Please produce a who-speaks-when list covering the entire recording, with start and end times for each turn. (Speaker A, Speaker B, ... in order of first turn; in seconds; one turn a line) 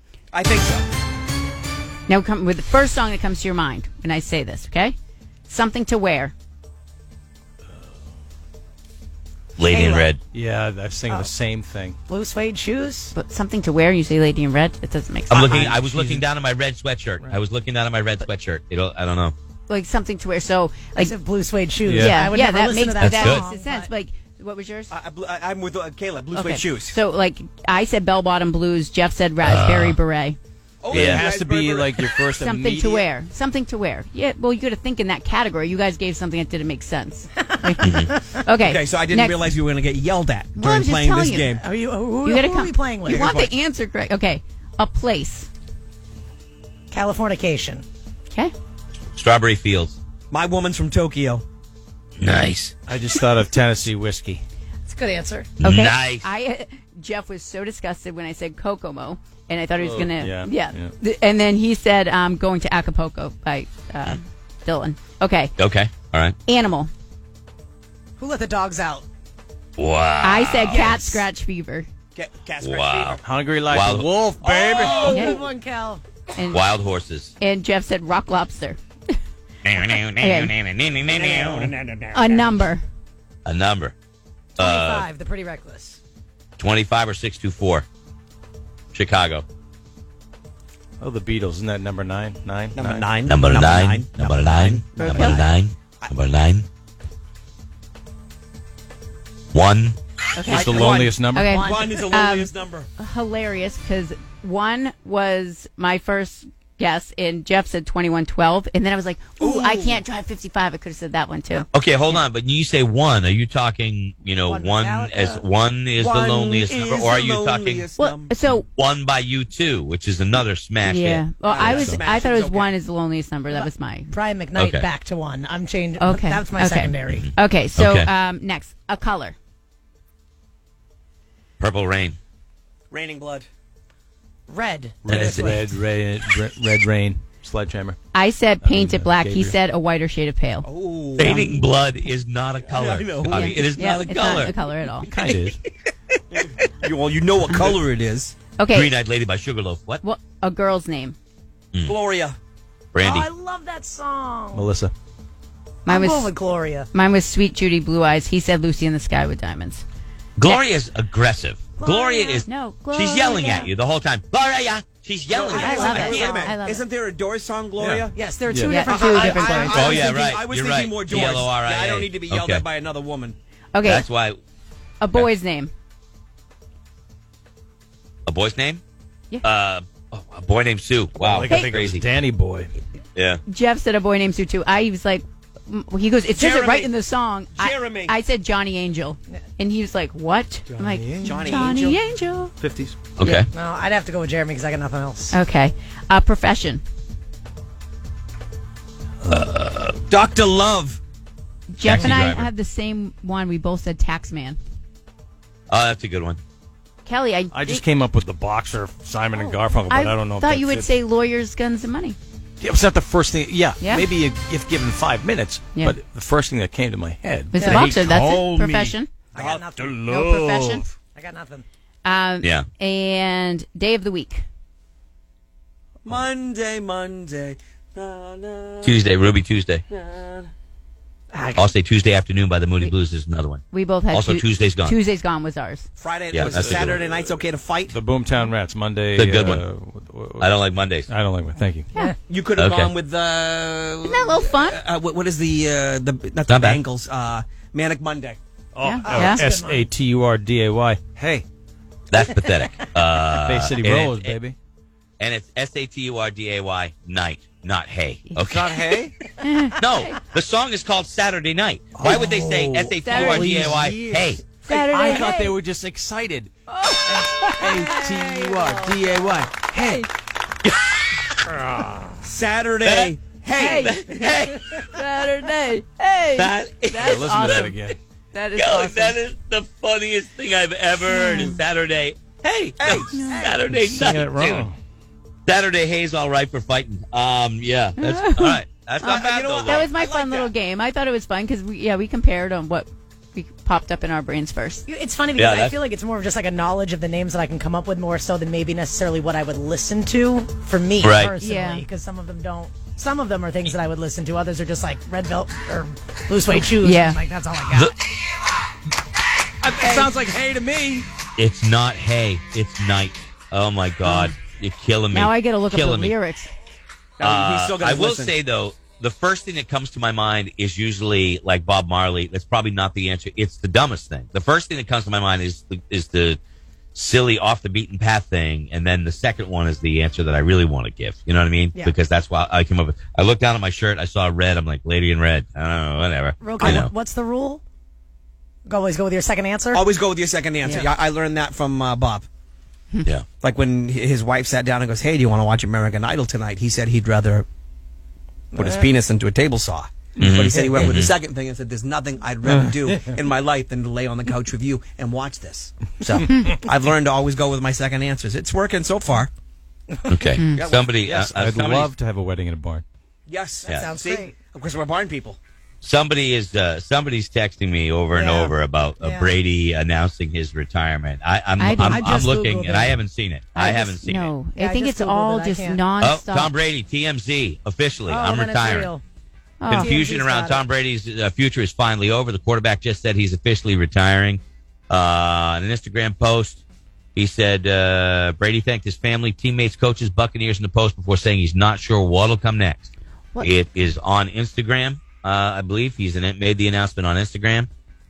Speaker A: 0.3-0.9
Speaker B: 2.1-5.0
Speaker B: 5.5-6.3
Speaker C: 9.6-10.2
Speaker D: 9.7-10.1
Speaker E: 10.3-12.0
Speaker D: 11.1-11.3
Speaker D: 12.1-13.1
Speaker B: 13.1-15.8
Speaker C: 15.3-19.3
Speaker E: 15.8-16.2
Speaker B: 19.7-21.1
Speaker D: 21.0-23.9
Speaker E: 21.8-22.3
Speaker B: 21.9-24.9
Speaker C: 23.0-23.4
Speaker A: 24.9-27.0
Speaker B: 26.3-30.4
Speaker C: 29.4-29.9
Speaker A: 30.8-32.2
Speaker C: 30.9-31.2
Speaker E: 31.0-33.0
Speaker B: 32.4-39.4
Speaker D: 37.5-38.3
Speaker C: 37.8-38.1
Speaker A: 38.6-41.6
Speaker B: 40.5-41.5
Speaker D: 41.5-43.5
Speaker B: 42.2-45.5
Speaker A: 43.1-43.5
Speaker D: 46.9-47.9
Speaker C: 49.1-50.0
Speaker A: 50.3-51.4
Speaker C: 52.2-52.7
Speaker E: 52.9-54.4
Speaker D: 54.9-55.5
Speaker C: 55.6-56.3
Speaker B: 55.6-65.5
Speaker E: 59.8-60.9
Speaker C: 65.6-66.3
Speaker B: 66.5-66.9
Speaker D: 68.2-69.0
Speaker C: 69.8-71.0
Speaker B: 70.2-71.9
Speaker A: 72.2-73.2
Speaker C: 72.6-74.1
Speaker E: 73.2-75.3
Speaker D: 74.4-76.0
Speaker A: 74.5-75.2
Speaker B: 75.0-75.4
Speaker B: 76.3-76.7
Speaker C: 76.5-77.3
Speaker B: 77.4-78.8
Speaker C: 79.7-81.7
Speaker B: 80.2-80.5
Speaker A: 81.0-82.6
Speaker B: 82.1-82.8
Speaker C: 83.5-83.9
Speaker D: 84.5-86.0
Speaker C: 84.6-85.1
Speaker C: 86.6-87.8
Speaker C: 88.9-89.5
Speaker E: 91.0-93.1
Speaker A: 92.8-95.4
Speaker C: 93.2-96.7
Speaker B: 95.0-95.4
Speaker C: 99.5-100.0
Speaker B: 100.3-100.7
Speaker E: 100.5-101.7
Speaker A: 100.5-102.9
Speaker B: 101.3-112.2
Speaker A: 109.4-110.0
Speaker C: 111.7-117.9
Speaker D: 114.5-115.4
Speaker A: 116.0-118.4
Speaker B: 118.0-118.7
Speaker C: 118.5-121.2
Speaker B: 120.8-124.2
Speaker A: 121.4-122.7
Speaker E: 121.6-122.0
Speaker D: 123.5-127.2
Speaker C: 124.6-124.9
Speaker B: 126.0-129.4
Speaker C: 127.1-128.1
Speaker C: 131.6-132.2
Speaker A: 132.9-133.5
Speaker D: 134.5-135.7
Speaker C: 135.1-135.6
Speaker E: 135.1-138.0
Speaker B: 138.1-140.7
Speaker E: 138.6-139.6
Speaker A: 140.6-141.4
Speaker C: 141.2-144.6
Speaker B: 141.2-141.6
Speaker A: 142.6-143.8
Speaker B: 143.3-145.1
Speaker E: 145.1-145.6
Speaker A: 146.4-148.4
Speaker B: 147.5-147.8
Speaker B: 148.6-148.9
Speaker C: 148.7-150.0
Speaker B: 150.0-151.2
Speaker A: 151.8-152.4
Speaker C: 152.9-153.3
Speaker D: 153.0-154.7
Speaker E: 154.5-154.9
Speaker B: 155.9-156.3
Speaker D: 155.9-156.9
Speaker B: 156.9-159.8
Speaker C: 160.4-166.4
Speaker D: 161.8-162.4
Speaker B: 162.5-163.7
Speaker A: 165.2-168.2
Speaker D: 165.5-166.6
Speaker B: 165.6-166.8
Speaker E: 167.8-168.9
Speaker D: 168.1-170.2
Speaker B: 168.7-169.9
Speaker A: 169.0-173.4
Speaker C: 169.6-172.7
Speaker B: 173.7-174.1
Speaker C: 173.8-174.4
Speaker B: 175.0-175.7
Speaker C: 178.2-178.8
Speaker C: 179.4-182.1
Speaker E: 181.2-182.7
Speaker B: 183.5-192.5
Speaker A: 186.4-186.9
Speaker A: 187.6-188.2
Speaker E: 190.7-191.7
Speaker A: 191.2-192.0
Speaker A: 192.6-192.9
Speaker C: 193.2-193.5
Speaker D: 193.5-195.4
Speaker B: 195.3-196.8
Speaker C: 199.6-199.9
Speaker A: 200.1-201.0
Speaker B: 201.7-204.6
Speaker C: 201.8-202.5
Speaker D: 201.9-202.2
Speaker C: 205.7-206.4
Speaker B: 207.1-207.8
Speaker E: 207.5-210.9
Speaker B: 209.3-212.2
Speaker E: 212.6-218.9
Speaker B: 213.8-214.1
Speaker B: 217.5-219.1
Speaker D: 217.6-217.9
Speaker D: 219.3-220.0
Speaker A: 219.4-219.6
Speaker E: 219.7-220.9
Speaker B: 220.1-220.8
Speaker D: 221.2-221.7
Speaker B: 222.1-224.4
Speaker A: 226.1-229.0
Speaker C: 228.8-229.8
Speaker A: 229.9-230.5
Speaker D: 231.3-231.7
Speaker C: 231.6-235.0
Speaker B: 233.7-235.9
Speaker A: 236.0-238.0
Speaker C: 236.3-237.0
Speaker E: 236.6-236.8
Speaker E: 237.9-240.6
Speaker C: 239.2-239.7
Speaker C: 240.4-241.1
Speaker E: 241.1-241.9
Speaker A: 242.3-248.4
Speaker C: 242.6-242.9
Speaker B: 244.0-244.8
Speaker C: 246.5-246.8
Speaker E: 248.8-251.4
Speaker B: 248.8-249.5
Speaker D: 249.0-249.9
Speaker C: 252.1-254.3
Speaker D: 252.2-252.6
Speaker E: 253.3-254.6
Speaker C: 255.2-258.8
Speaker E: 258.4-259.2
Speaker B: 259.4-260.2
Speaker C: 259.8-264.4
Speaker E: 261.9-266.5
Speaker B: 263.0-263.5
Speaker B: 264.7-265.6
Speaker B: 266.7-270.1
Speaker E: 267.0-270.0
Speaker C: 270.6-271.0
Speaker E: 271.5-272.1
Speaker A: 272.2-274.3
Speaker C: 272.8-273.1
Speaker B: 273.5-274.0
Speaker C: 273.7-274.9
Speaker B: 274.8-277.8
Speaker C: 276.4-277.9
Speaker E: 277.0-278.0
Speaker B: 278.3-279.2
Speaker C: 278.6-284.7
Speaker B: 281.1-281.6
Speaker A: 282.8-283.7
Speaker B: 283.1-283.5
Speaker E: 283.8-284.8
Speaker C: 285.5-289.9
Speaker B: 288.0-288.6
Speaker A: 289.0-290.5
Speaker B: 289.6-294.9
Speaker D: 294.9-307.9
Speaker C: 295.4-295.8
Speaker C: 301.0-301.3
Speaker B: 301.4-301.8
Speaker B: 306.6-307.2
Speaker A: 309.6-311.1
Speaker B: 309.8-310.1
Speaker C: 311.4-316.1
Speaker B: 314.0-314.3
Speaker B: 315.1-316.5
Speaker A: 317.2-318.3
Speaker C: 317.2-326.4
Speaker C: 326.9-336.9
Speaker D: 336.4-337.6
Speaker D: 338.6-339.8
Speaker A: 339.7-342.2
Speaker D: 340.6-340.9
Speaker A: 343.4-347.4
Speaker D: 348.5-348.9
Speaker A: 348.5-359.3
Speaker C: 350.2-351.1
Speaker E: 350.2-350.5
Speaker D: 350.5-350.8
Speaker E: 352.4-352.8
Speaker D: 356.0-356.4
Speaker D: 360.0-360.3
Speaker C: 360.1-361.9
Speaker B: 360.4-360.7
Speaker A: 360.5-361.2
Speaker E: 361.1-362.8
Speaker A: 363.3-365.4
Speaker D: 363.6-364.4
Speaker C: 365.8-374.3
Speaker D: 368.1-369.4
Speaker B: 371.6-372.2
Speaker D: 371.8-373.0
Speaker B: 373.5-376.6
Speaker D: 374.6-375.8
Speaker C: 376.0-378.9
Speaker D: 378.1-379.0
Speaker B: 379.6-380.0
Speaker C: 379.7-386.6
Speaker D: 379.7-380.6
Speaker C: 387.1-397.7